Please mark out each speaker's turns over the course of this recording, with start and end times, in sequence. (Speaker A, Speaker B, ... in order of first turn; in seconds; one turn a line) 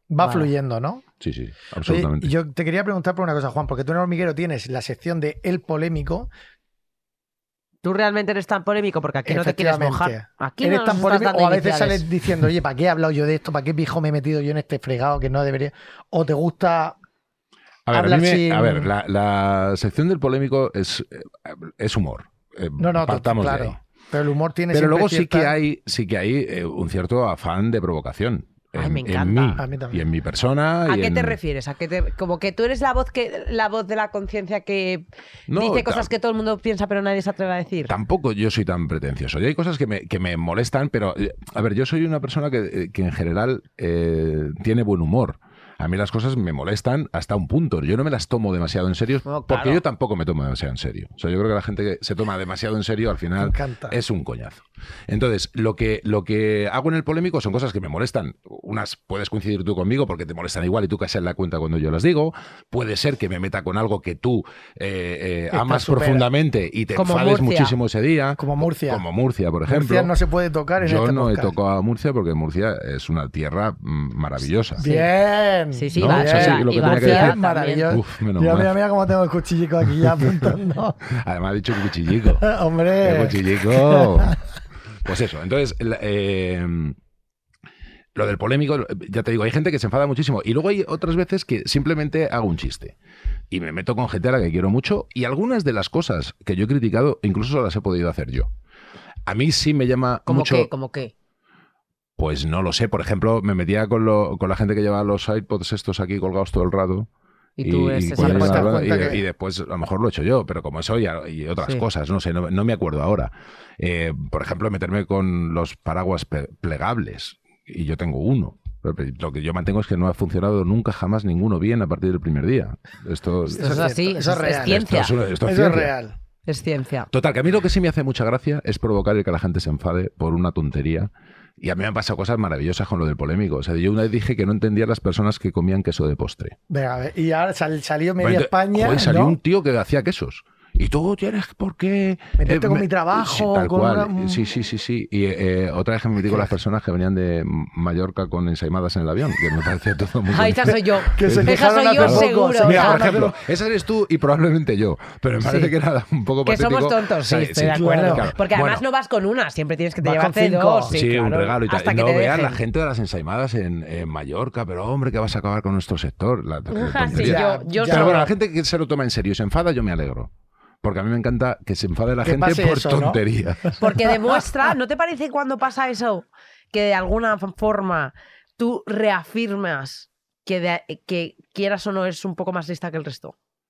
Speaker A: 0.1-1.0
Speaker B: 0.2-0.5
Speaker C: 1.2-2.3
Speaker A: 1.8-6.3
Speaker B: 7.8-12.0
Speaker A: 9.2-17.0
Speaker C: 17.9-23.8
Speaker A: 17.9-18.9
Speaker A: 22.8-25.5
Speaker C: 24.7-31.4
Speaker B: 28.7-29.6
Speaker A: 29.6-30.0
Speaker B: 30.9-37.9
Speaker C: 35.5-36.1
Speaker C: 37.9-70.1
Speaker B: 49.2-49.8
Speaker A: 53.4-54.0
Speaker A: 65.5-66.3
Speaker B: 66.9-67.7
Speaker A: 68.4-69.0
Speaker A: 69.7-71.5
Speaker C: 70.8-74.8
Speaker A: 74.8-81.0
Speaker B: 74.8-75.1
Speaker B: 75.7-77.9
Speaker C: 76.0-78.8
Speaker C: 81.1-84.4
Speaker A: 82.4-84.4
Speaker C: 85.0-87.0
Speaker C: 88.1-92.9
Speaker C: 93.5-98.5
Speaker C: 99.2-100.7
Speaker B: 100.3-101.1
Speaker C: 102.2-107.1
Speaker B: 107.6-108.9
Speaker C: 107.6-125.9
Speaker A: 108.2-109.2
Speaker A: 123.5-124.9
Speaker B: 123.6-125.1
Speaker A: 125.4-126.1
Speaker B: 126.5-127.1
Speaker C: 127.1-136.6
Speaker A: 136.7-139.4
Speaker C: 138.2-158.8
Speaker A: 142.4-144.4
Speaker A: 146.2-146.5
Speaker B: 150.3-153.1
Speaker A: 151.2-153.3
Speaker B: 155.4-155.7
Speaker B: 156.4-162.6
Speaker A: 157.7-158.3
Speaker A: 160.0-160.9
Speaker C: 160.9-170.3
Speaker B: 166.7-168.3
Speaker A: 167.1-168.3
Speaker C: 170.8-173.8
Speaker A: 172.2-173.2
Speaker B: 173.8-183.3